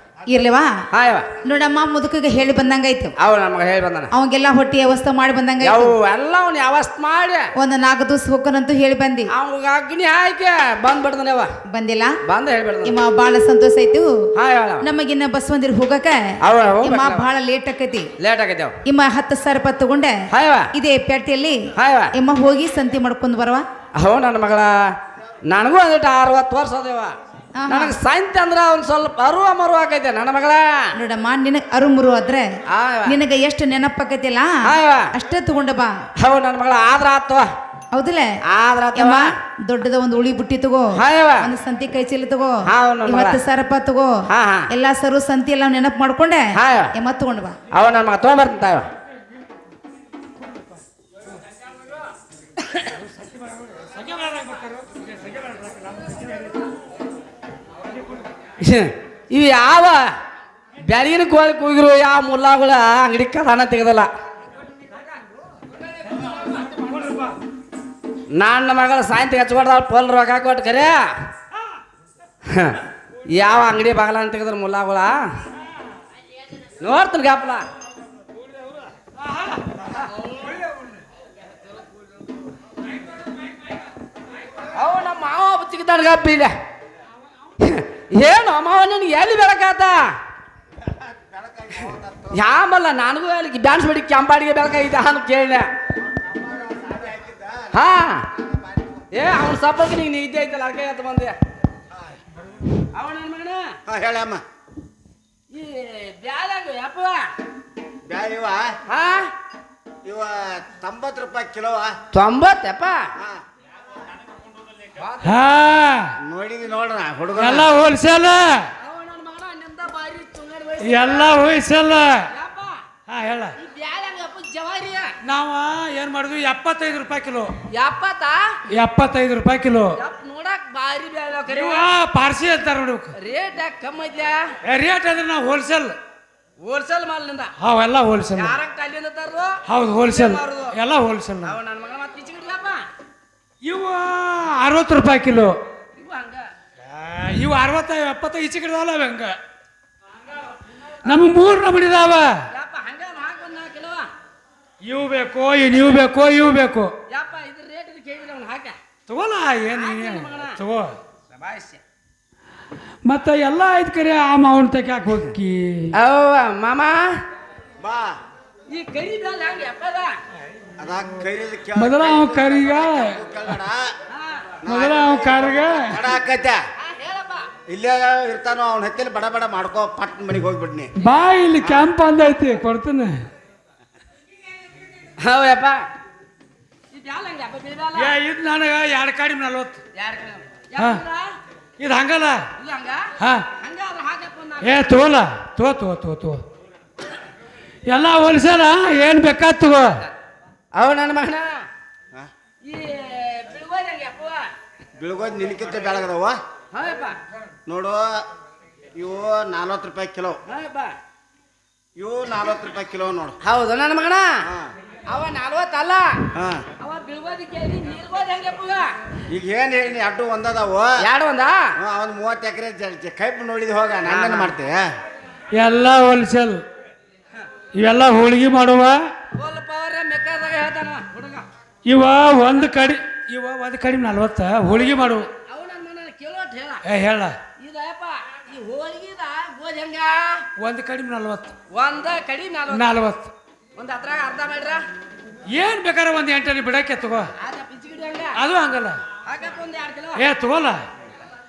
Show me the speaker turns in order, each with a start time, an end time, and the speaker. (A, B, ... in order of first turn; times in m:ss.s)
0:00.3-0:00.7 A
0:00.9-0:01.3 B
0:01.4-0:03.1 A
0:03.2-0:04.1 B
0:04.1-0:06.0 A
0:05.6-0:07.5 B
0:07.6-0:09.3 A
0:09.3-0:11.5 B
0:11.7-0:12.1 A
0:12.2-0:12.9 B
0:12.8-0:14.1 A
0:14.3-0:14.8 B
0:14.8-0:16.2 A
0:16.4-0:17.3 B
0:16.8-0:18.1 A
0:18.2-0:18.8 B
0:18.8-0:20.1 A
0:20.3-0:20.7 B
0:20.7-0:21.6 A
0:21.8-0:22.1 B
0:22.1-0:23.6 A
0:24.0-0:24.9 B
0:25.5-0:27.1 B
0:27.6-0:28.0 A
0:27.7-0:30.9 B
0:31.0-0:32.5 A
0:32.7-0:33.2 B
0:33.1-0:36.0 A
0:34.6-0:35.1 B
0:36.2-0:37.5 B
0:37.9-0:38.2 A
0:38.5-0:39.3 B
0:38.9-0:44.2 A
0:40.9-0:41.5 B
0:42.7-0:43.4 B
0:44.3-0:44.7 B
0:44.7-0:47.6 A
0:46.5-0:46.9 B
0:47.7-0:48.9 B
0:52.9-0:56.7 C
0:57.9-0:58.2 C
0:58.6-1:00.1 B
1:00.8-1:04.1 B
1:06.1-1:07.4 C
1:08.3-1:11.1 B
1:12.4-1:15.3 B
1:16.8-1:17.6 B
1:19.2-1:19.7 C
1:24.7-1:26.5 B
1:27.6-1:30.1 B
1:30.8-1:32.4 D
1:32.3-1:35.7 B
1:36.2-1:37.8 D
1:37.7-1:38.2 B
1:38.3-1:39.1 D
1:39.1-1:41.3 B
1:42.9-1:43.7 B
1:43.9-1:44.4 D
1:45.5-1:47.3 B
1:48.0-1:48.7 D
1:48.9-1:49.3 B
1:50.0-1:51.9 D
1:52.1-1:53.1 B
1:53.2-1:53.4 D
1:55.0-1:55.4 B
1:55.2-1:56.1 C
1:56.2-1:57.7 D
1:57.3-1:58.7 C
1:58.8-2:01.4 B
2:00.8-2:02.2 C
2:02.3-2:02.8 B
2:03.1-2:03.5 C
2:03.6-2:05.1 B
2:05.2-2:07.5 C
2:07.7-2:08.5 B
2:08.7-2:09.9 C
2:10.0-2:11.8 B
2:11.5-2:13.2 C
2:13.2-2:14.4 B
2:14.6-2:16.0 C
2:16.6-2:17.5 B
2:17.6-2:18.6 C
2:18.4-2:20.7 B
2:19.7-2:21.6 C
2:21.4-2:22.8 B
2:23.6-2:25.5 C
2:26.0-2:26.5 B
2:26.8-2:29.4 C
2:31.0-2:32.3 C
2:32.5-2:34.1 B
2:34.8-2:36.9 C
2:37.1-2:38.8 B
2:39.1-2:40.9 C
2:39.7-2:40.6 B
2:41.3-2:41.8 B
2:43.0-2:45.9 C
2:45.9-2:47.2 B
2:47.8-2:48.1 D
2:48.7-2:50.1 B
2:50.8-2:53.9 D
2:51.7-2:53.2 C
2:54.1-2:54.5 B
2:54.6-2:56.6 D
2:54.6-2:56.1 C
2:56.8-2:57.5 B
2:57.7-3:00.9 D
3:01.0-3:03.2 C
3:05.2-3:05.8 B
3:06.9-3:08.1 B
3:07.9-3:09.8 C
3:09.9-3:11.3 B
3:11.8-3:12.4 C
3:12.6-3:14.8 B
3:13.2-3:13.4 C
3:14.6-3:16.4 C
3:17.9-3:20.0 C
3:20.7-3:21.6 B
3:22.6-3:24.5 B
3:25.0-3:26.4 D
3:26.7-3:27.2 B
3:27.6-3:28.2 D
3:28.9-3:30.4 D
3:30.5-3:31.0 B
3:32.0-3:33.4 D
3:33.4-3:34.4 B
3:34.4-3:34.7 D
3:35.1-3:36.2 B
3:36.3-3:36.6 D
3:36.8-3:38.9 B
3:39.3-3:41.0 D
3:41.0-3:41.7 B
3:41.8-3:44.9 D
3:44.0-3:44.5 B
3:45.5-3:46.6 C
3:47.7-3:49.1 C
3:49.4-3:51.5 B
3:51.8-3:55.3 C
3:55.4-3:56.8 B
3:56.8-3:57.4 C
3:57.6-4:00.4 B
4:00.6-4:01.5 C
4:01.7-4:02.9 B
4:02.7-4:03.3 C
4:03.8-4:04.8 B
4:05.5-4:07.3 C
4:07.4-4:08.4 B
4:08.4-4:09.0 C
4:09.2-4:10.2 B
4:10.2-4:10.8 C